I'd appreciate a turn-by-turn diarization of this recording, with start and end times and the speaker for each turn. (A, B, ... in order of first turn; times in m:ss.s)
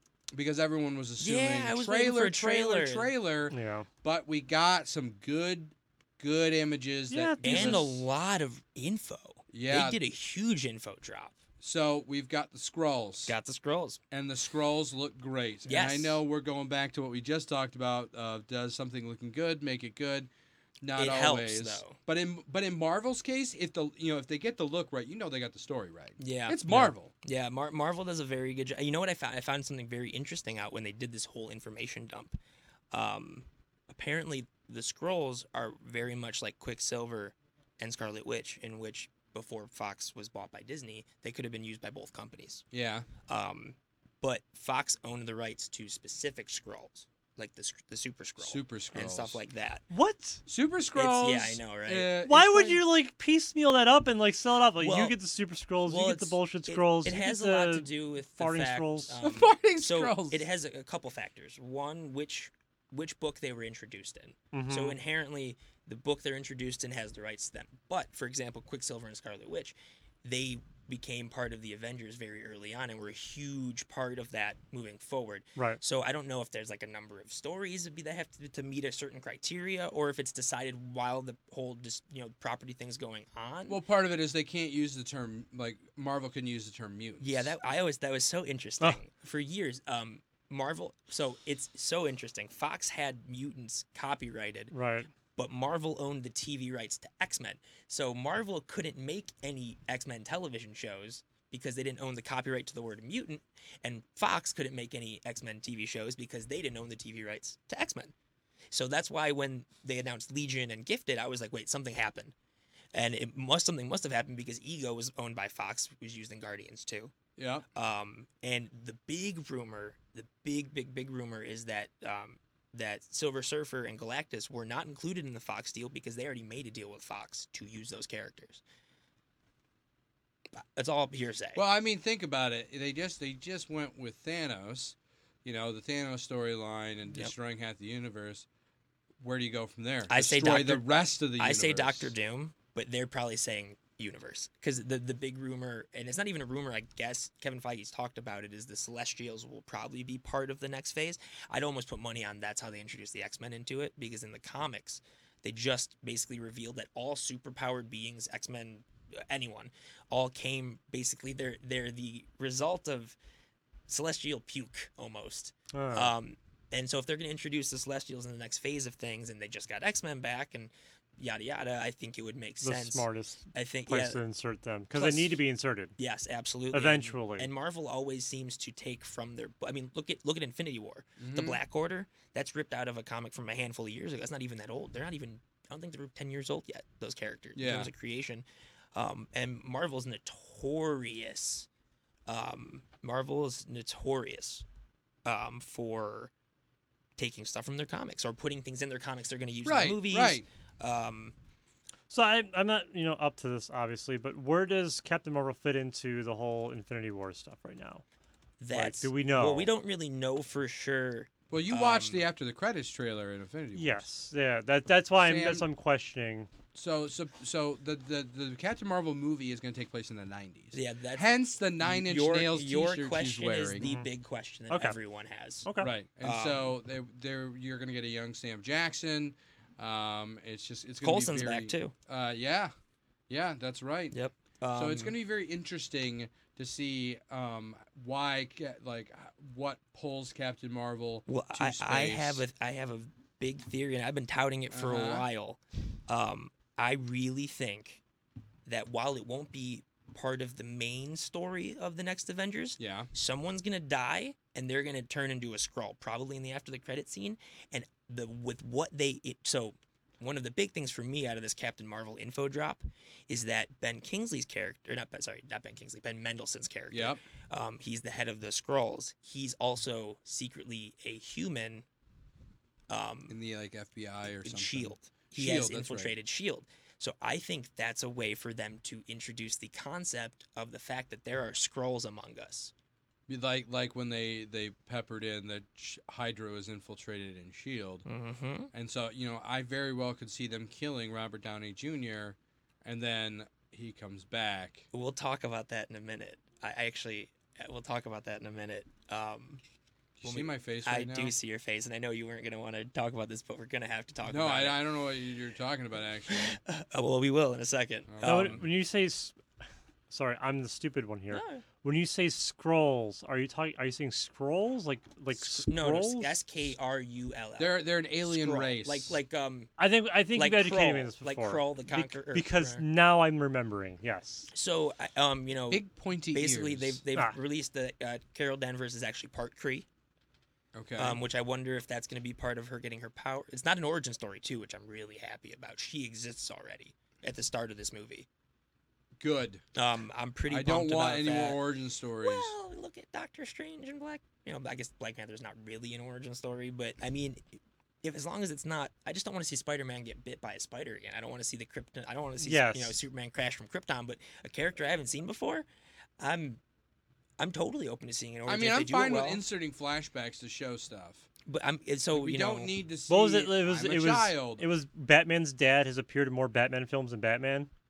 0:00.3-0:08.0 A
0:01.2-0:03.1 B
0:03.5-0:03.9 C
0:07.1-0:07.9 C
0:07.4-0:11.4 B
0:09.5-0:10.0 A
0:11.6-0:13.4 A
0:13.3-0:14.0 B
0:14.1-0:20.3 A
0:15.7-0:16.2 B
0:20.8-0:27.1 A
0:21.0-0:22.0 B
0:26.2-0:32.4 B
0:32.9-0:42.6 B
0:42.7-0:43.1 A
0:43.3-0:49.8 B
0:48.4-0:49.4 A
0:49.9-0:50.4 C
0:50.5-0:52.8 A
0:51.0-0:52.1 B
0:52.2-0:59.2 C
0:54.8-0:55.2 B
0:55.9-1:23.8 B
0:59.2-1:00.5 A
1:04.5-1:05.0 C
1:23.7-1:27.5 A
1:27.2-1:34.7 B
1:34.7-1:35.1 C
1:35.4-1:48.1 B
1:48.7-1:52.3 B
1:52.9-1:57.1 B
1:57.4-1:57.6 A
1:57.7-2:08.6 B
2:10.6-2:11.6 B
2:11.6-2:18.5 A
2:19.2-2:22.1 A
2:20.1-2:43.2 B
2:43.9-2:54.2 B
2:45.7-2:46.1 C
2:52.6-2:56.0 C
2:55.0-2:55.4 B
2:56.0-3:11.7 B
2:56.7-2:57.5 C
3:01.2-3:01.6 A
3:07.6-3:07.9 A
3:12.3-3:14.6 B
3:15.2-3:16.3 B
3:17.2-3:21.4 B
3:19.6-3:20.5 A
3:22.1-3:28.0 C
3:28.6-3:32.3 B
3:28.7-3:29.7 C
3:31.5-3:34.1 A
3:33.8-3:36.5 C
3:35.2-3:35.7 A
3:36.7-3:43.8 A
3:40.7-3:41.3 B
3:41.8-3:45.7 B
3:43.8-3:44.1 C
3:44.7-3:45.0 C
3:45.7-3:45.9 C
3:45.8-3:52.7 A
3:46.2-3:46.7 B
3:51.0-3:51.9 B
3:53.3-3:54.2 A
3:54.1-3:55.2 B
3:54.8-4:02.4 A
4:01.3-4:08.0 B
4:04.7-4:05.3 A
4:08.7-4:31.8 B
4:12.8-4:13.1 A
4:26.9-4:27.2 A
4:32.9-4:33.4 B
4:33.3-4:36.1 A
4:34.4-4:42.7 B
4:43.3-4:48.1 A
4:48.1-4:48.7 B
4:48.7-4:54.9 A
4:54.9-4:59.6 B
5:00.2-5:01.4 A
5:00.2-5:04.8 B
5:04.2-5:06.6 A
5:06.3-5:08.6 B
5:08.1-5:08.6 A
5:08.2-5:09.4 C
5:10.1-5:16.4 C
5:11.3-5:11.6 B
5:15.4-5:19.7 B
5:17.6-5:19.2 A
5:19.8-5:24.5 C
5:20.4-5:22.8 B
5:24.5-5:29.9 B
5:25.7-5:27.0 A
5:30.7-5:31.2 A
5:31.0-5:38.3 B
5:39.2-5:39.6 A
5:39.8-5:41.6 B
5:40.5-5:42.5 A
5:42.2-5:47.4 B
5:48.0-5:55.7 B
5:52.4-5:53.0 C
5:56.2-5:56.6 B
5:57.4-5:59.4 B
5:58.5-6:01.3 A
6:01.5-6:02.8 B
6:02.1-6:04.6 A
6:03.1-6:07.7 C